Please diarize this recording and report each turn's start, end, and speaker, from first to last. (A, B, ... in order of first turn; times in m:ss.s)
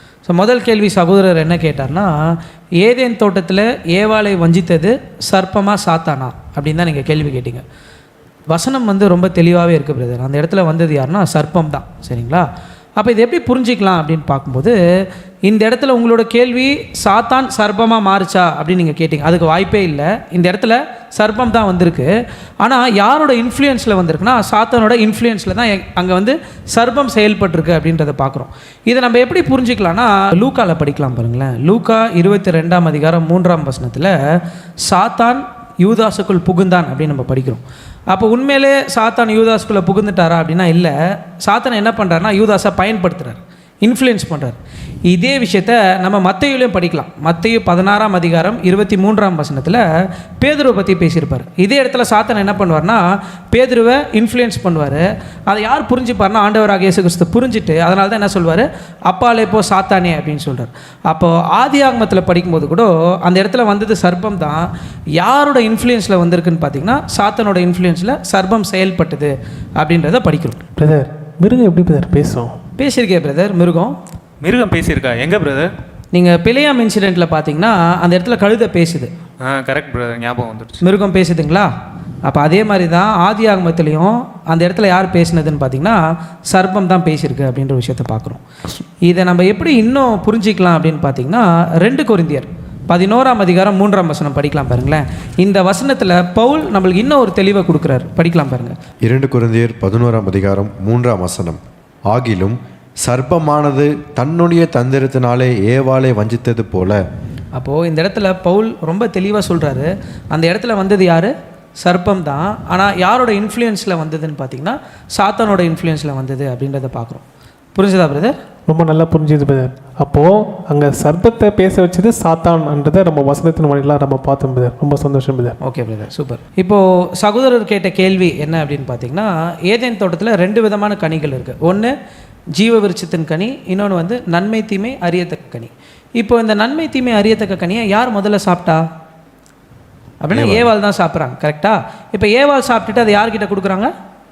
0:00.2-0:07.6 A
0:08.5-0:14.8 A
0:15.4-0:22.1 A
0:22.6-0:34.1 A
0:34.8-0:44.6 A
0:45.1-0:49.8 A
0:50.4-1:04.7 A
1:05.2-1:10.6 A
1:10.8-1:12.5 B
1:12.8-1:14.0 A
1:14.4-1:15.7 C
1:16.1-1:19.1 A
1:19.4-1:20.8 C
1:20.8-1:21.7 A
1:22.2-1:28.4 A
1:29.0-1:38.8 A
1:39.0-1:47.0 D
1:47.6-1:57.2 A
1:57.7-1:58.4 A
1:58.7-2:05.6 B
2:05.6-2:11.9 A
2:12.6-2:18.8 A
2:20.2-2:23.9 A
2:20.3-2:20.7 D